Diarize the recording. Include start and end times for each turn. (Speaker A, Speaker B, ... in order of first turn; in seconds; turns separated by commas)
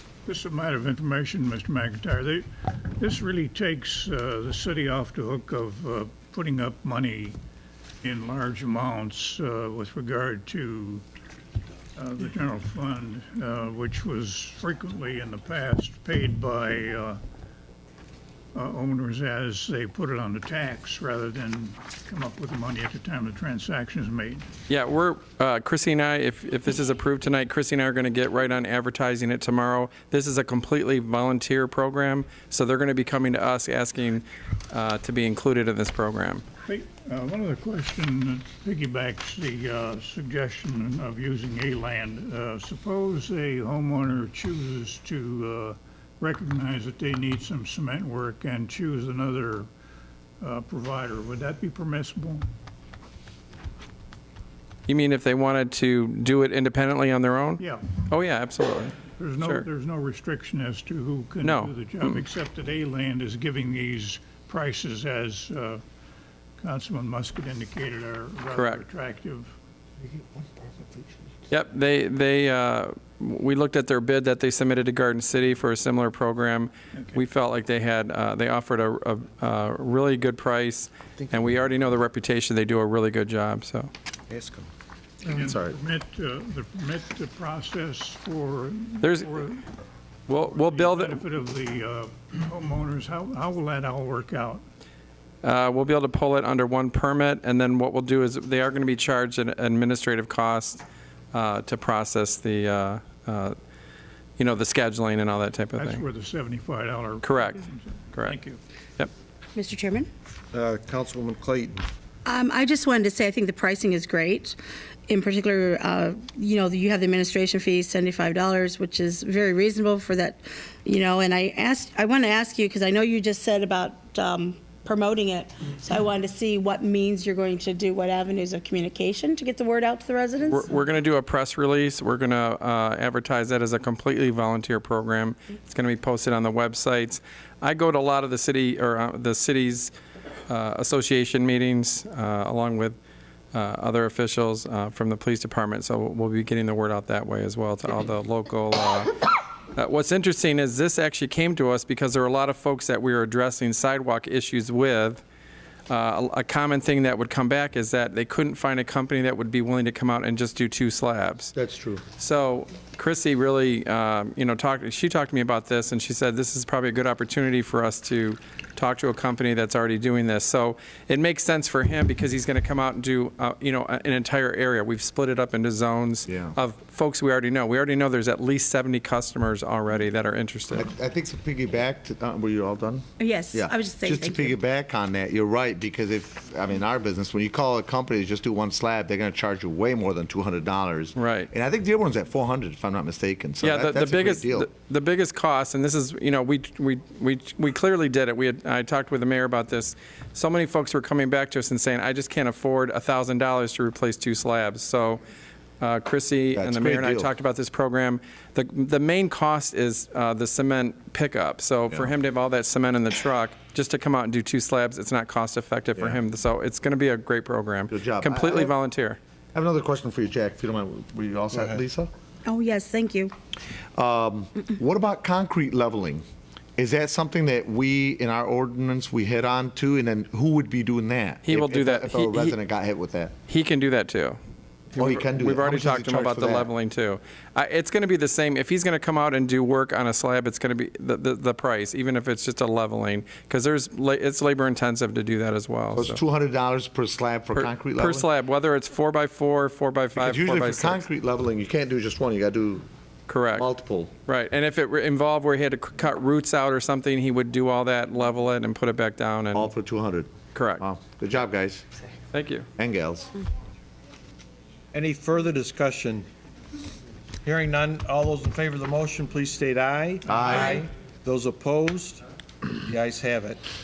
Speaker A: 0.2-7.4, Speaker A: 8.0-11.0, Speaker A: 11.9-17.2, Speaker A: 18.5-24.5, Speaker B: 24.7-36.4, Speaker A: 36.6-49.7, Speaker A: 50.4-52.5, Speaker B: 54.9-59.6, Speaker A: 57.6-57.9, Speaker A: 59.2-65.8, Speaker B: 61.4-62.2, Speaker A: 66.6-69.5, Speaker B: 68.5-68.8, Speaker B: 71.5-83.9, Speaker C: 84.3-84.6, Speaker A: 85.2-89.6, Speaker C: 85.4-85.7, Speaker B: 89.0-89.4, Speaker B: 90.3-91.2, Speaker A: 90.4-94.6, Speaker B: 95.4-103.5, Speaker B: 104.4-106.0, Speaker A: 105.8-108.6, Speaker B: 107.2-107.6, Speaker B: 108.1-108.4, Speaker D: 109.5-110.1, Speaker E: 110.5-111.8, Speaker D: 112.2-130.7, Speaker B: 130.5-139.9, Speaker B: 140.5-143.0, Speaker B: 143.5-149.2, Speaker B: 149.7-155.2, Speaker B: 155.9-161.5, Speaker C: 161.5-162.0, Speaker B: 162.2-180.9, Speaker C: 176.3-176.5, Speaker C: 180.7-194.7, Speaker D: 183.2-184.5, Speaker B: 191.2-191.5, Speaker B: 193.6-205.2, Speaker B: 205.8-219.2, Speaker C: 206.5-207.3, Speaker C: 217.9-218.7, Speaker C: 219.5-222.1, Speaker D: 222.4-223.3, Speaker C: 223.9-226.2, Speaker C: 226.8-233.3, Speaker B: 231.4-232.5, Speaker B: 233.5-234.4, Speaker B: 234.9-246.2, Speaker C: 235.0-236.7, Speaker C: 245.9-248.3, Speaker B: 247.5-251.0, Speaker C: 250.2-252.8, Speaker B: 253.3-253.6, Speaker C: 253.6-254.1, Speaker B: 254.3-259.7, Speaker C: 259.5-261.8, Speaker B: 260.5-260.8, Speaker B: 262.3-262.7, Speaker C: 262.8-263.3, Speaker E: 264.9-266.3, Speaker E: 267.4-272.2, Speaker C: 270.3-270.8, Speaker E: 272.7-273.6